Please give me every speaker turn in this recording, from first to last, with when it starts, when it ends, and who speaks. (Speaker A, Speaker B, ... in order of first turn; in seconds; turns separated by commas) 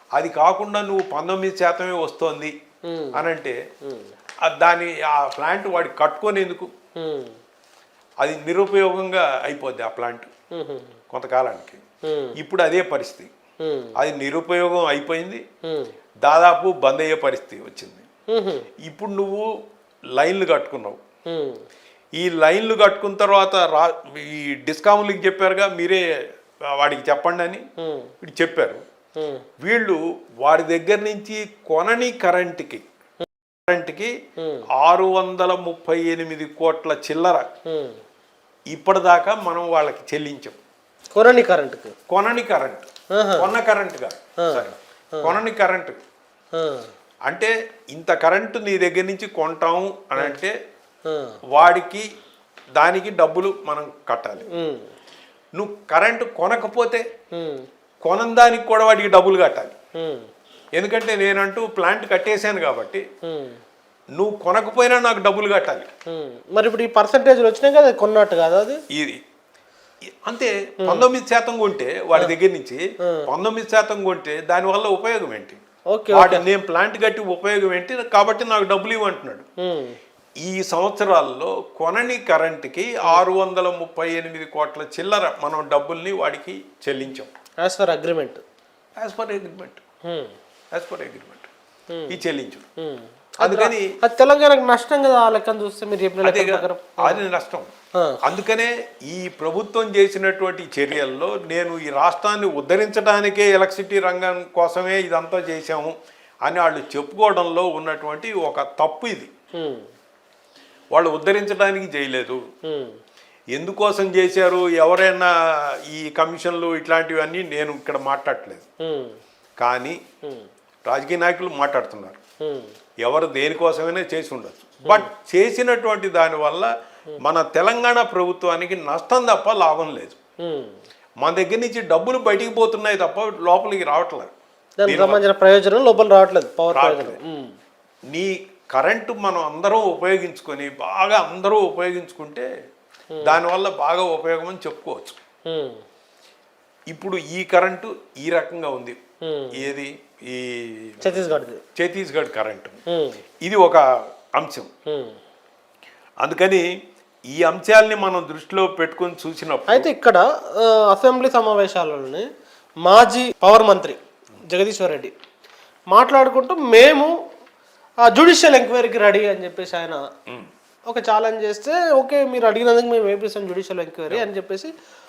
Speaker A: 0.1-2.5, Speaker B: 2.9-3.2, Speaker A: 3.1-3.6, Speaker A: 4.4-6.7, Speaker B: 7.0-7.3, Speaker A: 8.2-10.3, Speaker B: 10.5-10.9, Speaker A: 11.1-11.8, Speaker B: 12.0-12.4, Speaker A: 12.4-13.3, Speaker B: 13.6-14.0, Speaker A: 13.9-15.4, Speaker B: 15.6-15.9, Speaker A: 16.2-18.0, Speaker B: 18.3-18.7, Speaker A: 18.8-19.5, Speaker A: 20.1-21.0, Speaker B: 21.3-21.6, Speaker A: 22.1-26.0, Speaker A: 26.7-27.6, Speaker B: 27.8-28.1, Speaker A: 28.2-28.8, Speaker B: 29.2-29.4, Speaker A: 29.6-32.8, Speaker A: 33.7-34.1, Speaker B: 34.4-34.7, Speaker A: 34.8-37.5, Speaker B: 37.7-38.0, Speaker A: 38.7-40.6, Speaker B: 41.1-41.9, Speaker A: 42.1-46.0, Speaker B: 43.1-43.5, Speaker B: 44.4-44.6, Speaker B: 46.5-46.9, Speaker A: 47.3-50.5, Speaker B: 51.1-51.3, Speaker A: 51.5-52.1, Speaker A: 52.8-54.5, Speaker B: 54.5-54.8, Speaker A: 55.5-57.0, Speaker B: 57.3-57.6, Speaker A: 58.0-59.7, Speaker B: 60.0-60.3, Speaker A: 60.7-63.0, Speaker B: 63.2-63.6, Speaker A: 64.1-65.9, Speaker B: 66.1-68.8, Speaker A: 68.9-69.2, Speaker A: 70.2-75.6, Speaker B: 73.0-73.3, Speaker B: 75.9-76.4, Speaker A: 76.1-79.4, Speaker B: 79.6-80.0, Speaker A: 80.4-87.3, Speaker B: 87.6-88.4, Speaker A: 89.0-89.8, Speaker B: 90.1-90.3, Speaker A: 90.7-91.5, Speaker B: 91.9-92.2, Speaker A: 92.1-92.6, Speaker B: 92.8-97.2, Speaker A: 93.4-93.9, Speaker A: 96.2-97.7, Speaker A: 98.2-109.3, Speaker B: 109.6-109.8, Speaker A: 110.9-112.4, Speaker B: 112.6-113.0, Speaker A: 113.5-118.7, Speaker B: 118.8-119.2, Speaker A: 119.6-120.0, Speaker A: 120.8-122.2, Speaker B: 122.4-122.7, Speaker A: 123.0-126.7, Speaker A: 127.2-130.2, Speaker B: 130.4-130.8, Speaker A: 131.2-134.3, Speaker B: 134.8-137.5, Speaker A: 134.8-135.2, Speaker A: 136.7-137.2, Speaker A: 138.1-142.5, Speaker A: 143.2-145.2, Speaker B: 145.5-145.8, Speaker A: 146.9-149.0, Speaker B: 149.2-149.7, Speaker A: 149.6-152.8, Speaker B: 151.0-151.6, Speaker B: 152.9-153.2, Speaker A: 153.4-154.7, Speaker B: 154.9-155.2, Speaker A: 156.2-156.7, Speaker A: 157.3-159.9, Speaker B: 159.7-162.2, Speaker B: 162.8-165.1, Speaker B: 165.9-167.1, Speaker B: 168.0-170.0, Speaker B: 170.9-174.7